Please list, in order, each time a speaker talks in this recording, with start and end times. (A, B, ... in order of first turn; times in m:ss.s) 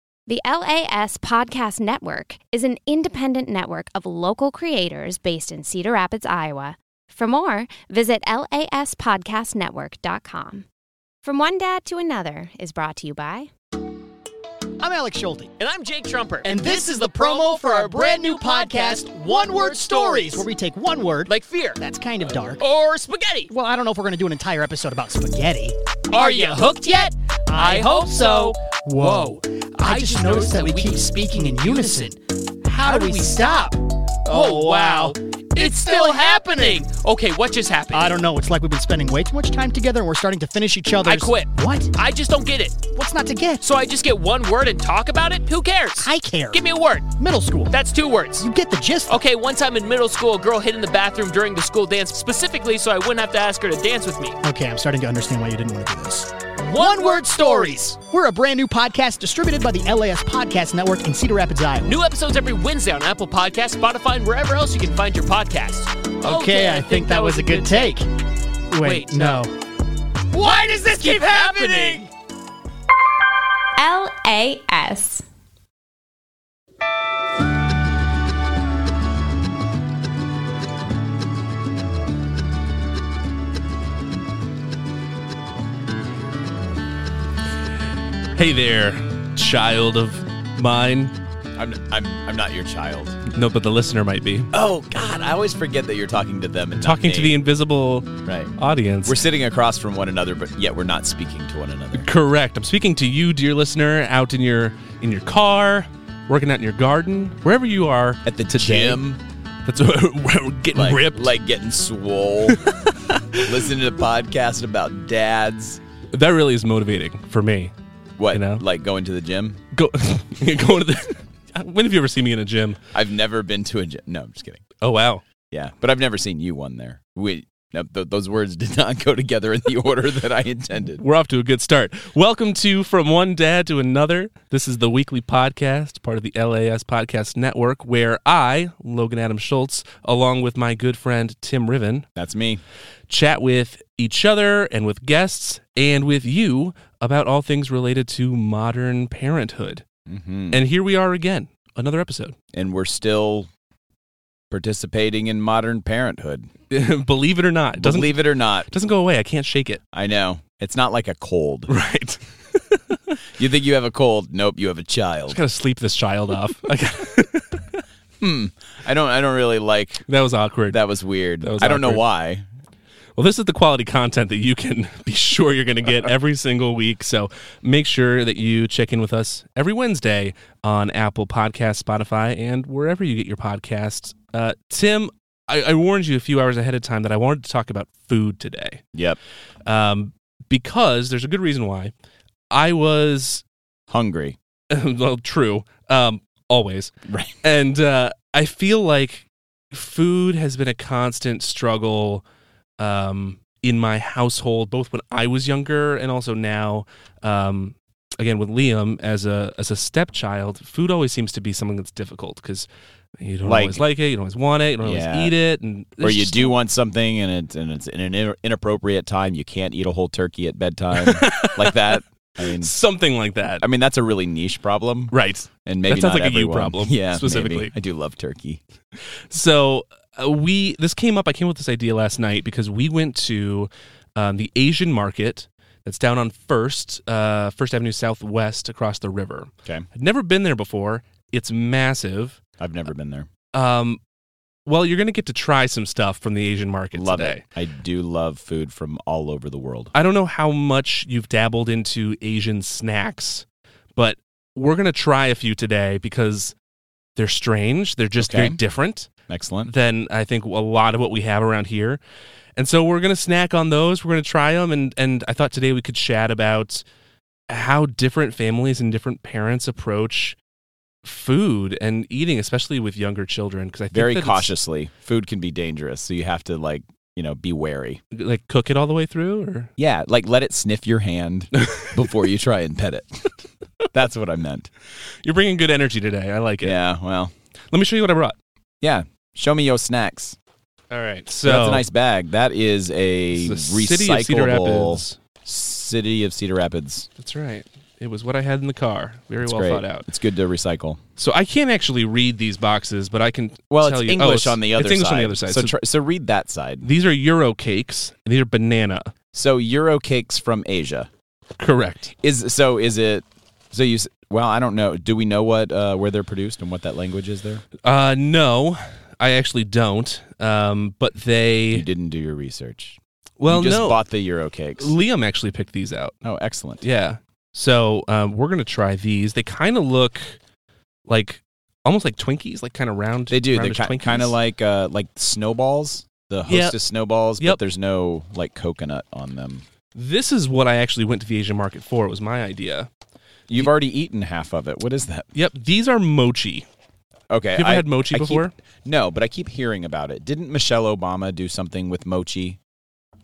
0:00.3-0:10.6 A
0:11.2-0:13.5 A
0:14.8-0:15.5 B
0:15.6-0:20.5 C
0:16.4-0:22.6 B
0:21.3-0:21.8 C
0:22.5-0:23.5 C
0:23.5-0:26.8 B
0:26.1-0:29.2 C
0:27.5-0:36.8 B
0:29.8-0:32.1 C
0:32.8-0:33.6 C
0:34.3-0:38.2 C
0:37.9-0:41.9 B
0:41.0-0:42.8 C
0:42.9-0:43.6 B
0:43.6-0:47.1 C
0:46.0-0:47.7 B
0:47.7-0:48.5 C
0:48.4-0:49.2 B
0:49.1-0:54.4 C
0:54.4-1:02.0 B
0:56.6-0:57.8 C
1:01.8-1:08.0 C
1:06.2-1:08.1 B
1:08.7-1:09.6 B
1:08.8-1:09.4 C
1:10.3-1:12.1 C
1:10.4-1:12.1 B
1:13.8-1:15.2 A
1:28.4-1:31.2 D
1:31.6-1:33.2 E
1:33.3-1:34.5 D
1:34.5-1:37.4 E
1:36.8-1:39.2 D
1:38.2-1:38.5 E
1:39.0-1:42.1 E
1:42.0-1:49.0 D
1:48.2-1:49.2 E
1:49.6-1:51.3 D
1:50.7-1:52.6 E
1:52.5-1:53.4 D
1:53.4-1:55.8 E
1:56.1-1:57.7 D
1:58.2-1:59.6 E
1:58.3-1:58.6 D
1:59.7-2:02.8 D
2:02.9-2:04.6 E
2:04.8-2:05.2 D
2:05.5-2:11.0 E
2:11.0-2:22.1 D
2:22.2-2:22.6 E
2:23.1-2:29.8 D
2:30.1-2:30.6 E
2:30.5-2:32.4 D
2:32.5-2:33.5 E
2:34.5-2:36.5 E
2:36.7-2:39.8 D
2:37.8-2:38.7 E
2:39.9-2:41.7 E
2:41.7-2:43.2 D
2:43.4-2:45.4 E
2:45.3-2:47.8 D
2:48.2-2:50.1 E
2:50.1-2:50.8 D
2:50.7-2:52.5 E
2:51.4-2:52.0 D
2:53.2-3:08.8 D
3:08.9-3:09.2 E
3:09.7-3:11.9 D
3:12.5-3:13.4 D
3:13.9-3:14.4 E
3:14.7-3:22.2 D
3:17.1-3:17.4 E
3:22.8-3:32.7 D
3:33.2-3:36.5 D
3:33.4-3:33.8 E
3:34.8-3:35.3 E
3:36.0-3:42.7 E
3:41.0-3:43.6 D
3:43.6-3:48.6 E
3:45.1-3:47.7 D
3:49.3-4:02.4 D
4:02.6-4:03.3 E
4:03.5-4:04.0 D
4:04.7-4:07.4 D
4:07.0-4:09.9 E
4:09.9-4:13.4 D
4:14.0-4:16.5 D
4:17.2-4:19.1 D
4:18.2-4:18.6 E
4:19.3-4:19.7 E
4:19.7-4:22.0 D
4:22.6-4:26.8 D
4:27.5-4:30.4 D
4:31.0-4:34.5 D
4:33.9-4:38.0 E
4:38.1-4:39.7 D
4:39.8-4:43.3 E
4:41.6-4:42.1 D
4:43.9-4:44.7 E
4:45.2-4:46.8 D
4:46.6-4:47.3 E
4:47.7-4:48.4 D
4:48.8-4:50.4 E
4:50.9-4:51.8 D
4:51.4-4:57.1 E
4:53.3-4:55.2 D
4:57.2-5:00.0 D
4:59.4-5:01.0 E
5:01.2-5:05.8 D
5:03.7-5:06.9 E
5:06.8-5:09.1 D
5:09.3-5:11.1 E
5:11.6-5:12.1 D
5:12.2-5:17.6 E
5:17.8-5:21.9 D
5:21.7-5:25.0 E
5:23.4-5:24.0 D
5:24.8-5:26.2 D
5:26.2-5:26.8 E
5:26.8-5:30.4 D
5:31.1-5:34.3 D
5:33.3-5:39.6 E
5:36.5-5:36.8 D
5:40.0-5:42.9 D
5:43.5-5:45.3 E
5:45.4-5:46.7 D
5:47.3-5:52.6 E
5:47.6-5:48.5 D